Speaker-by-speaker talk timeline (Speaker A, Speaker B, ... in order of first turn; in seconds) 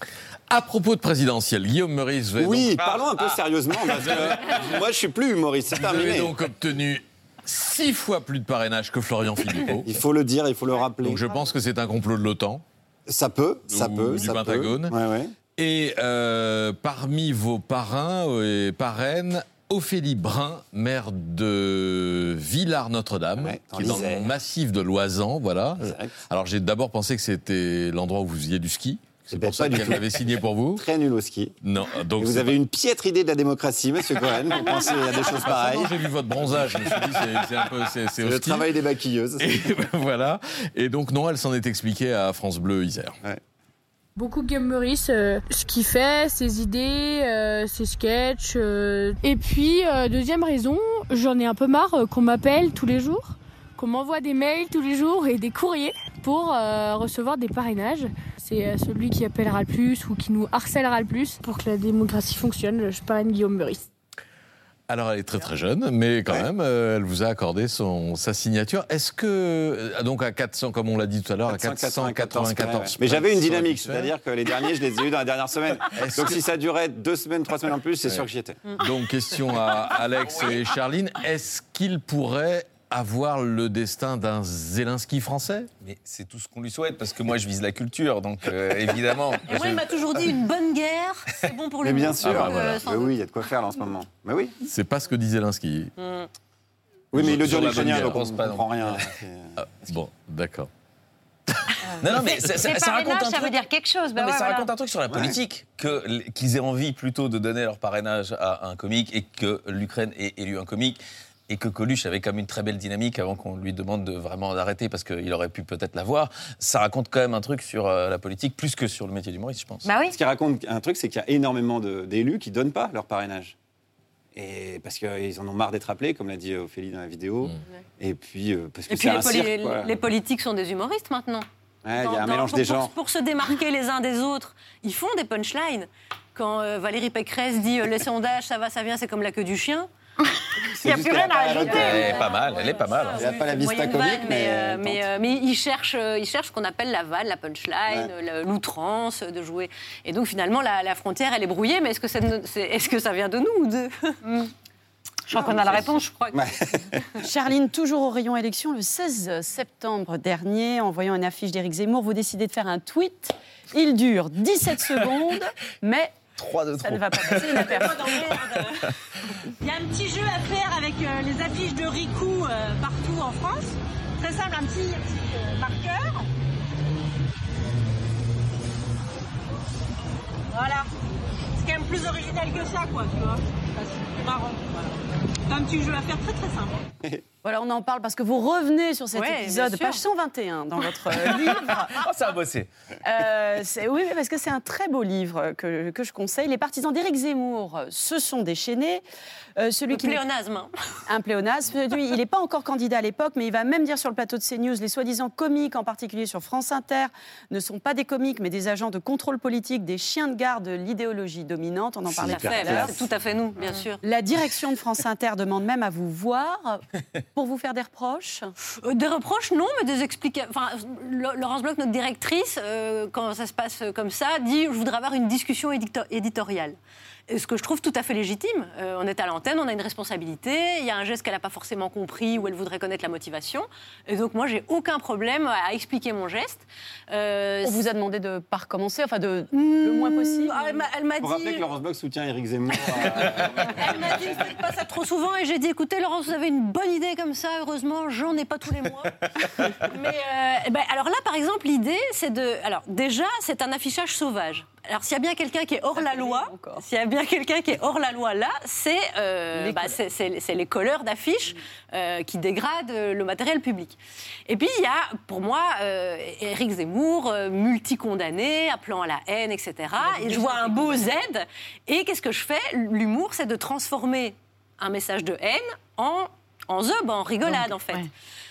Speaker A: 0.5-2.8, 4.0-4.6, 5.7-10.0, 11.0-12.6, 13.7-14.9, 15.6-30.9, 31.6-32.5, 34.5-38.7, 39.4-43.2, 64.9-74.1, 75.9-76.4, 78.8-85.7, 92.2-92.8, 94.6-95.9, 97.2-98.2, 99.6-100.7
Speaker B: 2.4-6.3, 9.8-11.3, 13.1-15.3, 23.4-24.3, 25.8-26.1, 29.3-31.6, 32.2-37.5, 38.2-39.6, 71.5-78.6, 91.8-94.5, 97.1-99.5, 105.1-105.4, 120.1-123.5, 124.3-130.0, 131.8-132.9, 140.8-142.2, 143.2-145.1, 155.3-156.8, 212.1-213.1, 241.2-243.9
Speaker C: 2.9-3.4, 80.3-80.6, 85.8-89.8, 97.3-98.9, 102.0-103.6, 104.2-119.9, 141.7-143.4, 166.4-167.7, 191.9-192.7
Speaker D: 44.2-63.9
Speaker E: 89.5-93.2, 96.0-96.3, 128.9-131.4, 132.0-139.9, 141.3-154.1, 189.2-190.0, 199.9-200.7, 212.2-214.0, 218.8-226.8, 227.3-237.8, 239.5-241.7, 243.6-278.1
Speaker F: 101.9-104.7, 119.8-120.2, 140.8-142.2, 154.2-154.5, 155.3-156.3, 277.4-278.1
Speaker G: 157.2-168.3, 187.4-191.9, 193.1-199.0, 199.6-200.2, 201.1-213.0, 214.0-216.8, 217.3-218.5, 237.6-240.8, 255.9-256.9, 259.5-260.0, 270.1-270.6
Speaker H: 169.6-176.2, 180.5-180.8, 181.6-184.9, 185.5-186.8